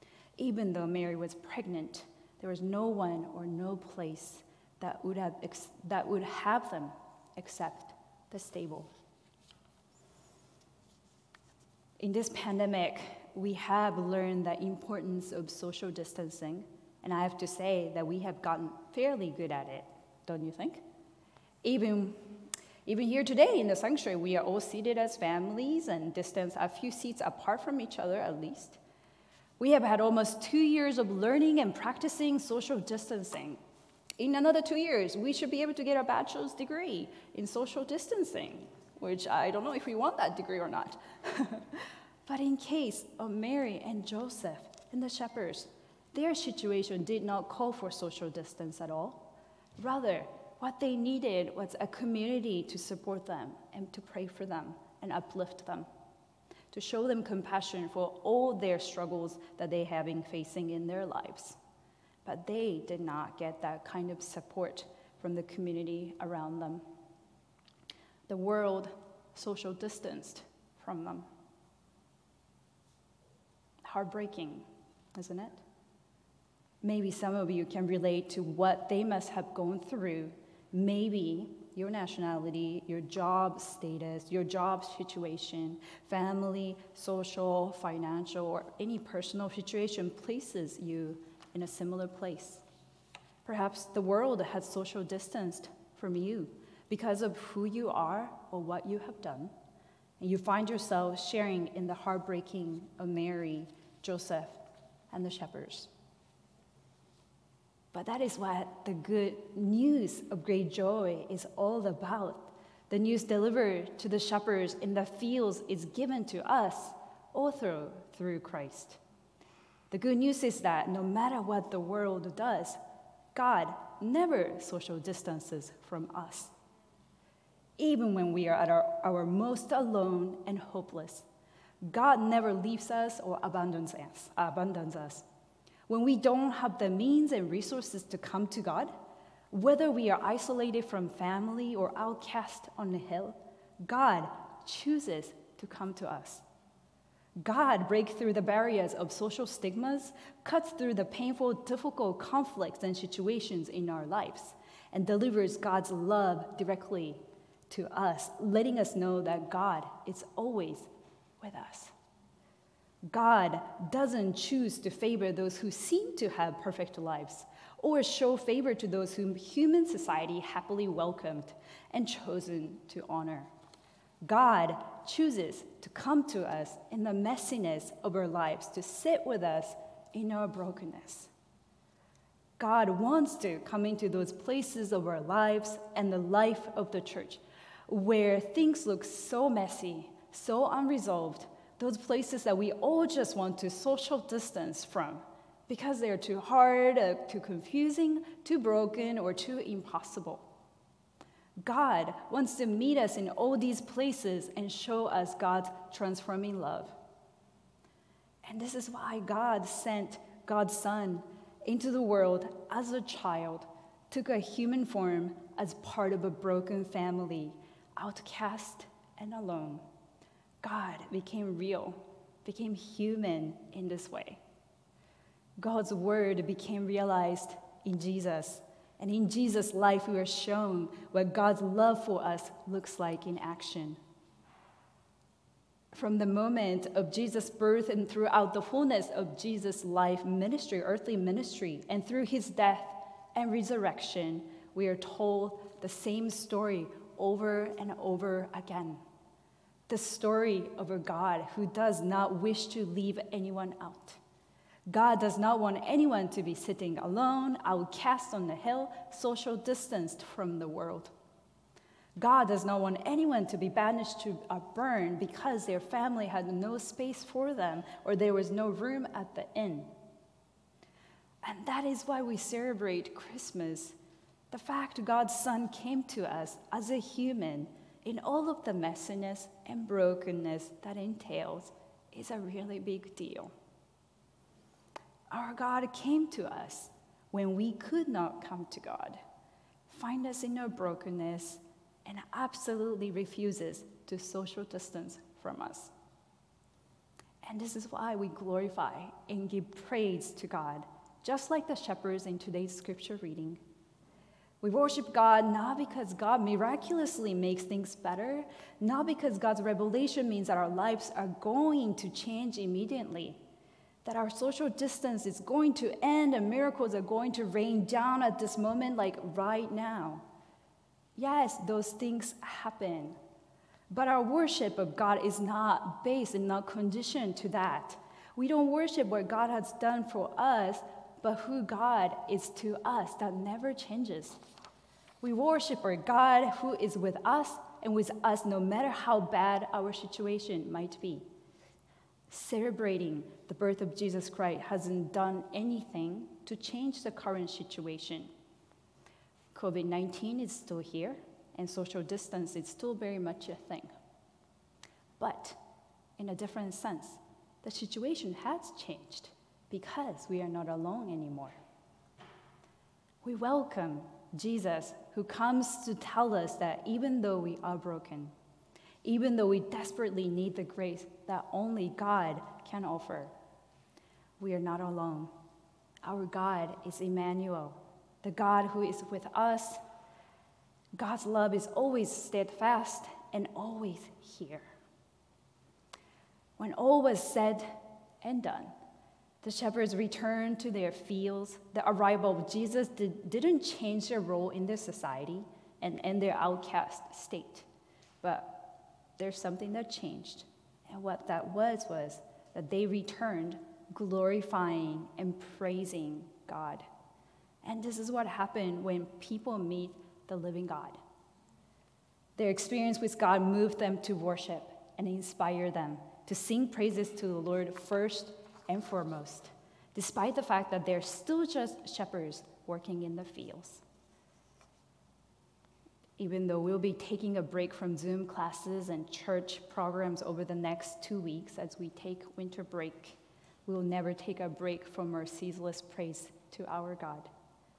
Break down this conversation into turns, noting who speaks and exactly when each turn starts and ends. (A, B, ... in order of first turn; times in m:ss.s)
0:00.4-0:08.9 A
0:12.0-0:20.8 A
0:21.6-0:28.8 A
0:29.6-0:33.6 A
0:34.2-0:55.9 A
0:56.7-1:01.6 A
1:02.2-1:06.8 A
1:08.3-1:11.3 A
1:13.8-1:15.6 A
1:16.8-1:32.6 A
1:33.4-1:39.5 A
1:40.2-1:45.9 A
1:47.9-1:59.0 A
1:59.9-2:02.8 A
2:03.3-2:06.5 A
2:07.8-2:11.3 A
2:11.9-2:15.2 A
2:15.9-2:18.9 A
2:19.5-2:26.4 A
2:27.4-2:40.9 A
2:41.4-2:41.9 A
2:43.1-2:53.5 A
2:54.3-3:01.3 A
3:02.6-3:20.4 A
3:21.6-3:26.9 A
3:28.4-3:39.8 A
3:40.6-3:44.4 A
3:45.6-3:54.0 A
3:55.9-4:09.0 A
4:09.9-4:14.2 A
4:14.9-4:21.1 A
4:22.2-4:29.9 A
4:31.4-4:34.0 A
4:34.5-4:43.5 A
4:45.3-4:49.2 A
4:49.9-4:55.9 A
4:57.4-5:03.6 A
5:04.6-5:13.4 A
5:14.0-5:20.2 A
5:21.2-5:23.2 A
5:23.9-5:34.4 A
5:35.2-5:41.2 A
5:42.3-5:48.3 A
5:49.5-5:53.9 A
5:55.2-5:55.6 A
5:56.2-6:01.6 A
6:03.2-6:08.3 A
6:09.0-6:13.3 A
6:14.4-6:15.3 A
6:16.0-6:19.8 A
6:21.0-6:24.7 A
6:26.6-6:28.7 A
6:29.4-6:37.7 A
6:38.2-6:46.9 A
6:47.6-6:51.0 A
6:52.4-7:03.8 A
7:06.2-7:17.3 A